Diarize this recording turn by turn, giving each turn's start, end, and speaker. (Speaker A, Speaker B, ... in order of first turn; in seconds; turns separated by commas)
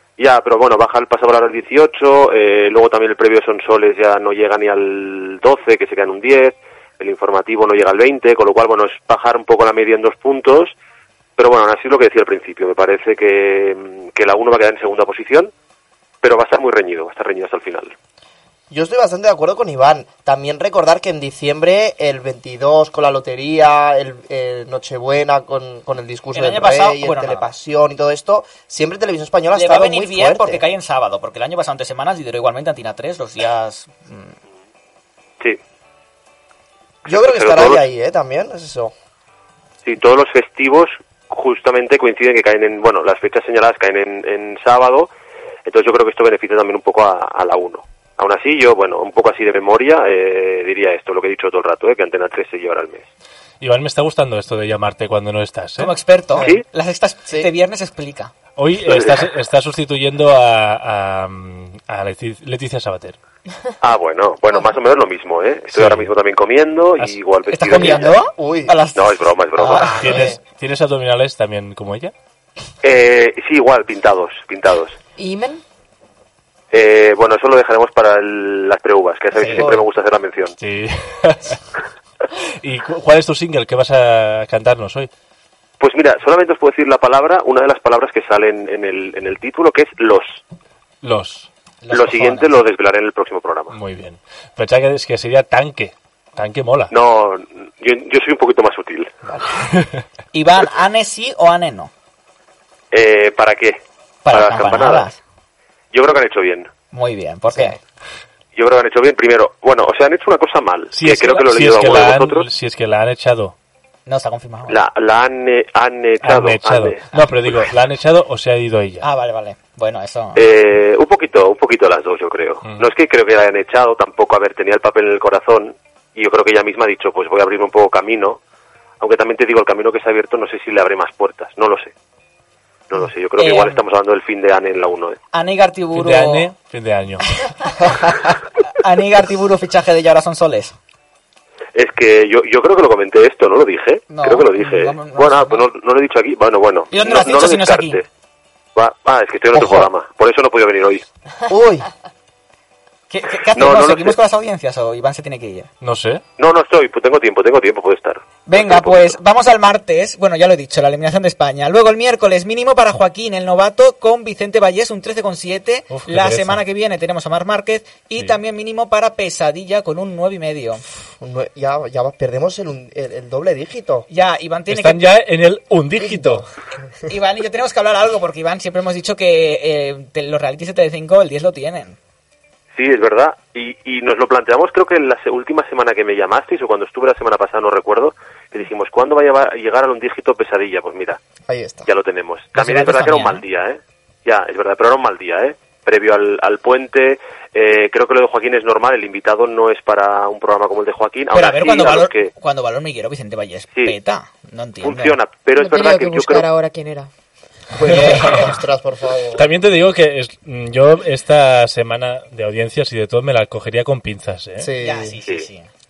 Speaker A: 0.2-10.8, Speaker A: 11.4-15.5, Speaker A: 16.2-17.9, Speaker B: 18.7-30.6, Speaker C: 26.3-27.5, Speaker C: 29.6-34.4, Speaker A: 37.1-37.8, Speaker B: 37.1-38.9, Speaker A: 39.9-45.1, Speaker A: 45.7-53.1, Speaker D: 53.6-56.0, Speaker C: 55.8-58.3, Speaker A: 56.4-56.6, Speaker D: 58.6-63.2, Speaker A: 58.8-59.2, Speaker A: 63.8-68.2, Speaker D: 65.7-66.1, Speaker C: 67.5-70.3, Speaker B: 67.7-68.8, Speaker A: 69.0-70.1, Speaker B: 69.7-70.4, Speaker D: 69.8-72.1, Speaker A: 72.8-75.0, Speaker E: 75.2-75.6, Speaker A: 76.7-80.5, Speaker C: 79.4-79.8, Speaker B: 79.5-79.8, Speaker D: 80.6-81.6, Speaker D: 82.3-85.1, Speaker A: 85.8-90.4, Speaker D: 91.0-91.5, Speaker C: 91.8-92.5, Speaker A: 91.9-93.7, Speaker D: 93.7-96.9, Speaker A: 96.9-99.1, Speaker B: 99.3-99.5, Speaker D: 99.7-100.0, Speaker C: 100.3-101.9, Speaker A: 102.9-103.8, Speaker C: 104.2-105.2, Speaker A: 104.3-105.1, Speaker A: 105.9-106.7, Speaker C: 106.9-107.8, Speaker A: 108.6-112.5, Speaker D: 110.9-113.5, Speaker C: 114.1-114.8, Speaker A: 114.7-117.2, Speaker D: 116.2-119.1, Speaker C: 119.0-120.5, Speaker A: 120.3-128.4, Speaker A: 129.0-131.9, Speaker A: 132.9-135.2, Speaker C: 133.4-133.8, Speaker C: 135.3-136.5, Speaker D: 135.9-137.3, Speaker C: 137.8-140.8, Speaker A: 141.8-148.1, Speaker C: 144.1-145.7, Speaker C: 146.9-148.0, Speaker A: 148.8-151.1, Speaker B: 151.5-151.9, Speaker C: 153.1-155.7, Speaker A: 153.5-154.2, Speaker D: 155.8-156.2, Speaker A: 156.4-159.2, Speaker C: 158.5-170.8, Speaker D: 165.9-166.6, Speaker B: 171.2-174.1, Speaker C: 174.1-175.1, Speaker D: 174.7-176.5, Speaker B: 176.0-176.5, Speaker C: 177.1-182.0, Speaker A: 182.8-191.2, Speaker B: 191.5-191.9, Speaker A: 191.9-202.3, Speaker C: 192.5-193.4, Speaker C: 201.3-205.2, Speaker A: 204.8-206.5, Speaker E: 205.6-207.1, Speaker B: 207.7-209.5, Speaker D: 207.9-208.4, Speaker C: 207.9-208.4, Speaker D: 209.3-214.7, Speaker B: 214.6-215.2, Speaker C: 214.8-215.7